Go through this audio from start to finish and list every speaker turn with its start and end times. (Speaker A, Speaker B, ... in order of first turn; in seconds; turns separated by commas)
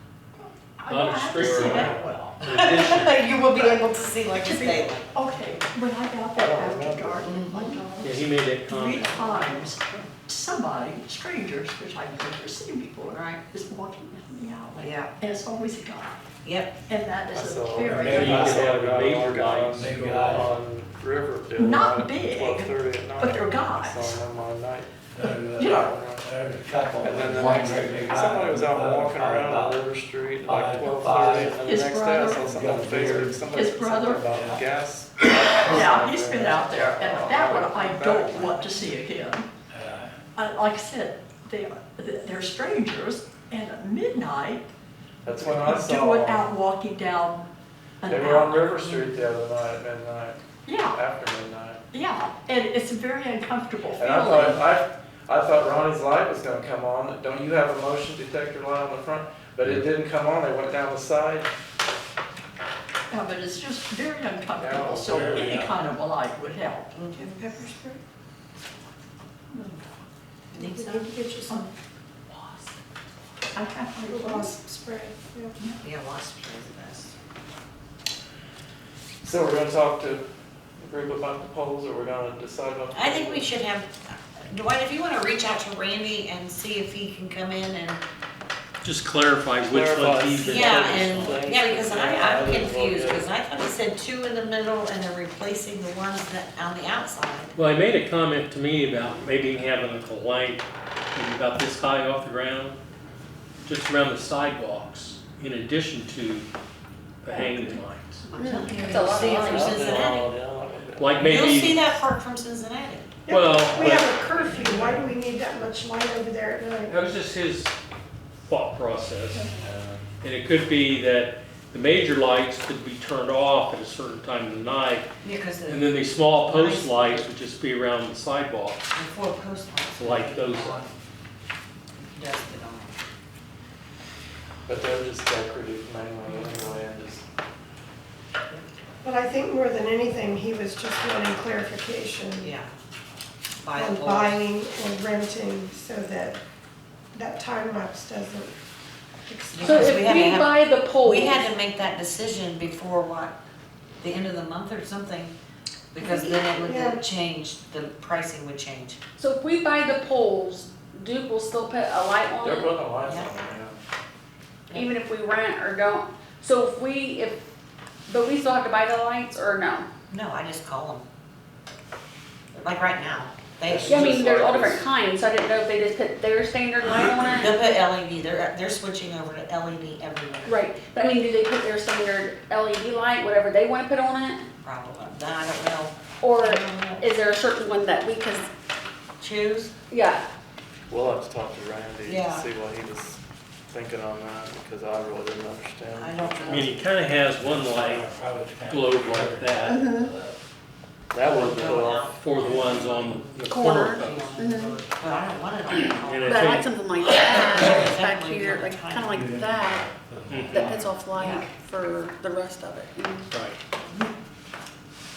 Speaker A: 0.6-2.4, Speaker B: 0.9-3.1, Speaker C: 1.7-2.2, Speaker D: 2.4-5.5, Speaker A: 4.3-16.2, Speaker C: 6.3-7.3, Speaker D: 7.3-7.8, Speaker B: 8.0-9.2, Speaker D: 9.0-10.1, Speaker D: 13.1-13.4, Speaker D: 14.7-15.1, Speaker D: 16.4-16.7, Speaker A: 16.9-18.2, Speaker C: 17.3-26.2, Speaker E: 17.9-18.9, Speaker B: 18.1-20.5, Speaker E: 19.7-20.5, Speaker A: 21.5-24.2, Speaker E: 25.1-29.8, Speaker A: 25.6-25.9, Speaker C: 27.0-38.9, Speaker A: 27.4-27.6, Speaker E: 30.4-31.8, Speaker A: 31.5-32.5, Speaker E: 32.4-33.4, Speaker A: 33.4-34.3, Speaker E: 34.3-34.6, Speaker A: 35.2-39.5, Speaker E: 39.7-40.1, Speaker A: 40.4-44.7, Speaker C: 45.2-46.5, Speaker A: 45.3-47.5, Speaker A: 48.0-49.1, Speaker C: 48.0-51.8, Speaker A: 50.6-51.0, Speaker A: 51.9-54.6, Speaker C: 54.0-61.5, Speaker A: 63.1-66.9, Speaker C: 64.5-65.7, Speaker B: 65.0-65.6, Speaker D: 66.9-67.7, Speaker F: 67.2-68.0, Speaker A: 69.5-69.8, Speaker D: 70.5-71.0, Speaker F: 70.5-71.7, Speaker A: 70.6-71.7, Speaker A: 72.3-72.6, Speaker A: 73.5-74.5, Speaker F: 74.0-75.6, Speaker D: 75.8-77.1, Speaker C: 79.2-83.5, Speaker D: 82.9-88.0, Speaker B: 88.8-91.4, Speaker C: 89.6-93.3, Speaker D: 90.4-97.5, Speaker B: 97.5-102.8, Speaker B: 103.6-106.5, Speaker B: 107.2-108.2, Speaker D: 108.3-110.3, Speaker G: 108.3-110.1, Speaker C: 109.3-111.8, Speaker B: 111.0-112.0, Speaker D: 111.2-113.1, Speaker F: 113.2-117.0, Speaker B: 113.3-114.1, Speaker C: 113.7-115.0, Speaker B: 116.9-117.7, Speaker B: 118.5-119.5, Speaker C: 119.6-120.0, Speaker B: 120.2-125.1, Speaker D: 125.2-127.2, Speaker B: 125.7-128.8, Speaker D: 128.9-130.9, Speaker B: 129.9-130.8, Speaker D: 132.1-132.9, Speaker C: 134.7-137.2, Speaker D: 136.2-136.8, Speaker F: 139.0-142.5, Speaker D: 142.4-142.7, Speaker D: 143.6-144.4, Speaker F: 143.7-146.4, Speaker F: 147.1-148.5, Speaker F: 149.2-150.2, Speaker D: 149.5-153.3, Speaker G: 149.6-151.5, Speaker D: 154.0-155.3, Speaker D: 155.9-159.0, Speaker F: 156.0-157.0, Speaker G: 159.2-162.9, Speaker C: 162.4-163.8, Speaker D: 163.0-163.3, Speaker G: 164.7-167.4, Speaker G: 168.1-169.9, Speaker D: 170.1-171.1, Speaker D: 172.6-174.2, Speaker C: 173.7-174.9, Speaker G: 173.8-177.5, Speaker D: 177.2-180.6, Speaker G: 180.4-184.4, Speaker D: 184.6-187.1, Speaker G: 186.2-188.5, Speaker D: 189.2-189.7, Speaker G: 189.9-190.2, Speaker C: 190.9-196.5, Speaker D: 192.1-192.4, Speaker D: 195.9-196.8, Speaker B: 196.4-198.1, Speaker E: 197.4-200.4, Speaker B: 198.7-199.7, Speaker G: 199.7-200.1, Speaker C: 201.1-202.1, Speaker D: 201.2-209.1, Speaker B: 202.1-204.3, Speaker G: 203.5-204.8, Speaker B: 205.7-206.7, Speaker G: 206.2-209.9, Speaker E: 209.1-210.9, Speaker B: 210.3-210.7, Speaker G: 210.5-213.3, Speaker D: 211.1-211.5, Speaker B: 213.3-213.6